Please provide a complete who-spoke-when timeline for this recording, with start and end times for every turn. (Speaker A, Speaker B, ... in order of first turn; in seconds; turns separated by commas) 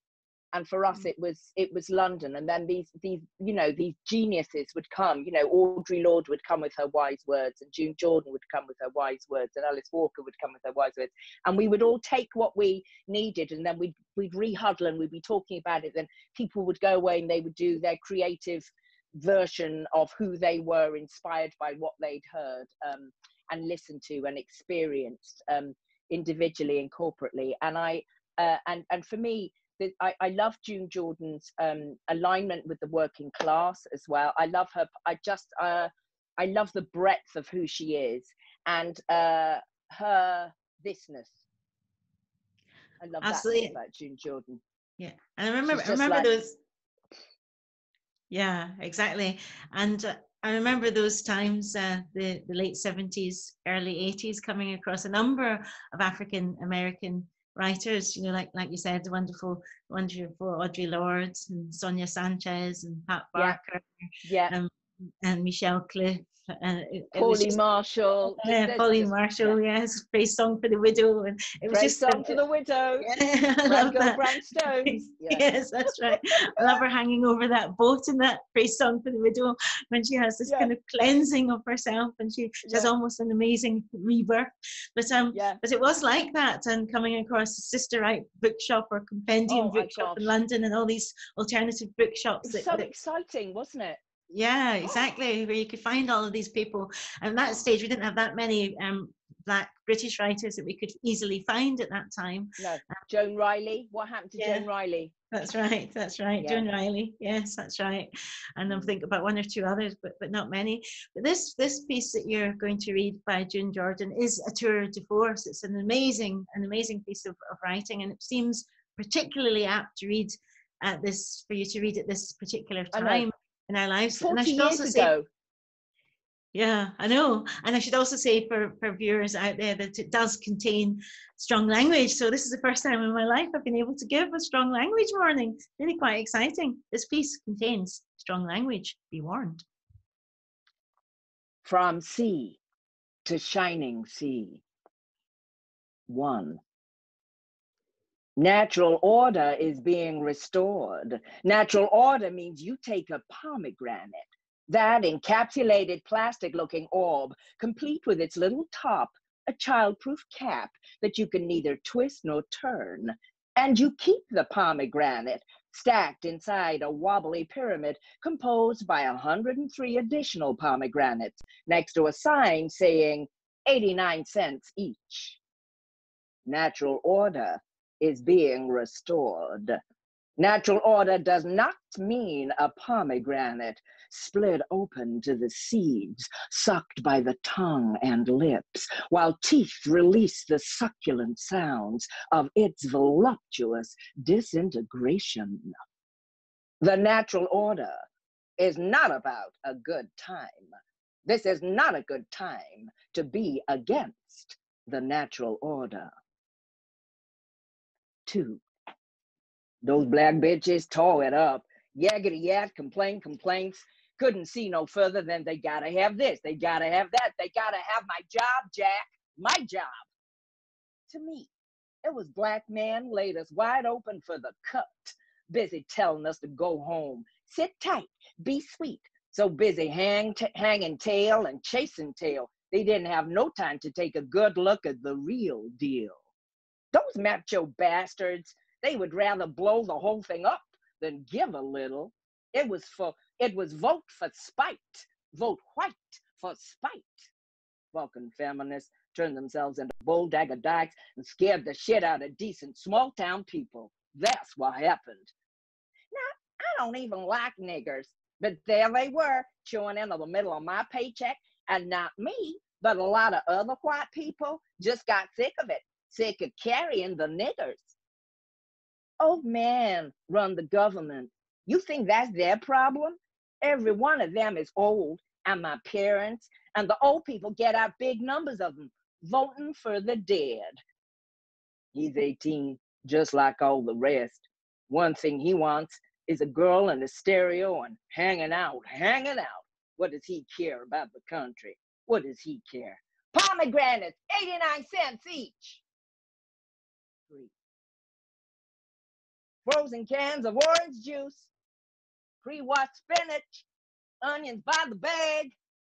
Speaker A: 0.5-41.4, Speaker A: 43.0-44.6, Speaker B: 43.2-43.8, Speaker B: 45.0-46.6, Speaker A: 45.7-46.3, Speaker B: 48.3-63.9, Speaker A: 64.2-64.5, Speaker B: 64.5-67.6, Speaker A: 67.1-69.6, Speaker B: 68.3-72.4, Speaker A: 71.7-75.5, Speaker B: 73.1-92.9, Speaker A: 76.1-76.8, Speaker A: 82.6-82.9, Speaker A: 85.3-85.6, Speaker A: 89.5-90.3, Speaker A: 92.4-94.0, Speaker B: 94.3-102.6, Speaker A: 102.6-105.1, Speaker B: 104.4-104.7, Speaker B: 105.3-125.1, Speaker A: 106.4-106.7, Speaker A: 122.9-123.3, Speaker A: 124.2-125.3, Speaker B: 126.5-139.7, Speaker A: 141.6-142.6, Speaker A: 143.3-144.6, Speaker A: 146.1-146.6, Speaker A: 148.4-175.4, Speaker A: 176.5-179.8, Speaker A: 180.4-195.7, Speaker A: 196.8-198.0, Speaker A: 198.6-200.7, Speaker A: 201.3-206.1, Speaker A: 208.3-208.6, Speaker A: 209.8-219.9, Speaker A: 221.1-221.5, Speaker A: 222.0-236.2, Speaker A: 236.9-247.2, Speaker A: 247.9-255.3, Speaker A: 256.1-267.9, Speaker A: 269.2-280.8, Speaker A: 281.9-295.8, Speaker A: 299.7-301.5, Speaker A: 302.4-303.7, Speaker A: 304.2-305.5